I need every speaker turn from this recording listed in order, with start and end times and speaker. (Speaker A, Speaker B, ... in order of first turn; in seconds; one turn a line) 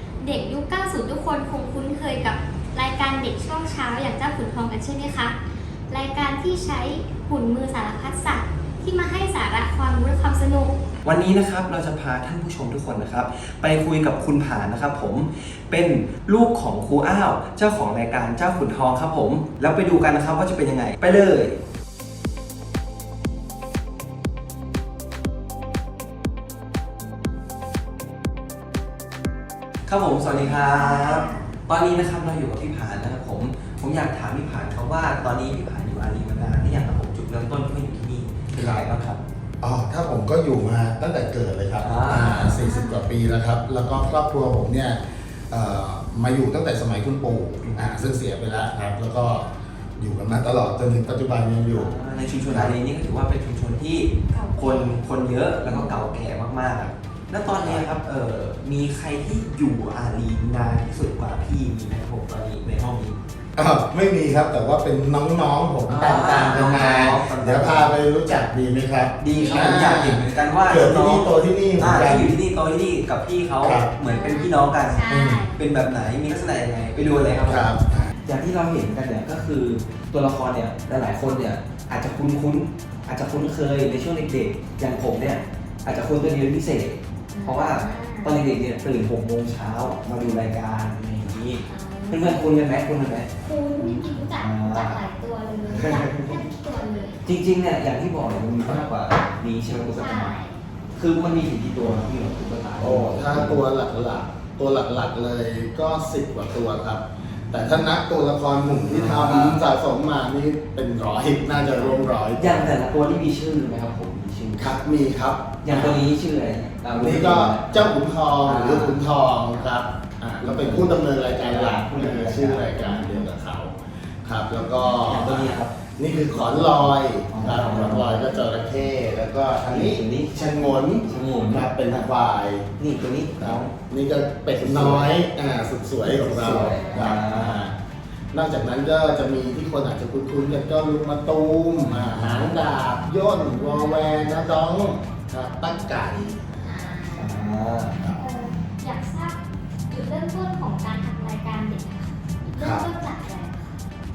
Speaker A: 0.2-5.4
Speaker A: 5.9-10.8
Speaker B: 11.0-21.6
Speaker B: 29.9-39.2
Speaker A: 30.3-31.5
Speaker C: 38.6-38.8
Speaker C: 39.6-51.9
Speaker B: 41.8-42.6
Speaker A: 42.6-43.0
Speaker B: 51.7-63.2
Speaker C: 52.5-52.7
Speaker A: 54.3-55.0
Speaker A: 55.7-55.9
Speaker C: 57.5-57.8
Speaker C: 63.5-72.3
Speaker B: 65.9-67.9
Speaker B: 69.2-95.0
Speaker A: 69.3-69.9
Speaker C: 73.6-73.9
Speaker A: 74.0-75.5
Speaker C: 75.1-75.4
Speaker C: 77.4-78.1
Speaker A: 87.3-88.4
Speaker A: 91.7-92.5
Speaker A: 93.4-97.2
Speaker C: 95.7-96.4
Speaker B: 97.2-100.3
Speaker A: 99.9-100.6
Speaker B: 101.0-103.6
Speaker C: 102.8-112.7
Speaker B: 108.9-109.6
Speaker B: 111.8-114.8
Speaker C: 114.6-116.0
Speaker B: 115.6-119.0
Speaker C: 116.9-123.7
Speaker B: 120.4-122.8
Speaker A: 122.8-123.2
Speaker C: 124.2-132.7
Speaker B: 125.0-128.2
Speaker B: 129.6-130.4
Speaker B: 131.0-131.7
Speaker B: 132.8-133.7
Speaker C: 133.4-137.7
Speaker B: 134.6-135.1
Speaker B: 136.0-137.7
Speaker A: 136.7-137.1
Speaker C: 138.3-146.7
Speaker B: 141.8-142.6
Speaker A: 143.4-144.1
Speaker A: 145.7-147.4
Speaker B: 147.1-148.0
Speaker A: 148.1-149.3
Speaker A: 149.9-153.7
Speaker C: 152.6-152.9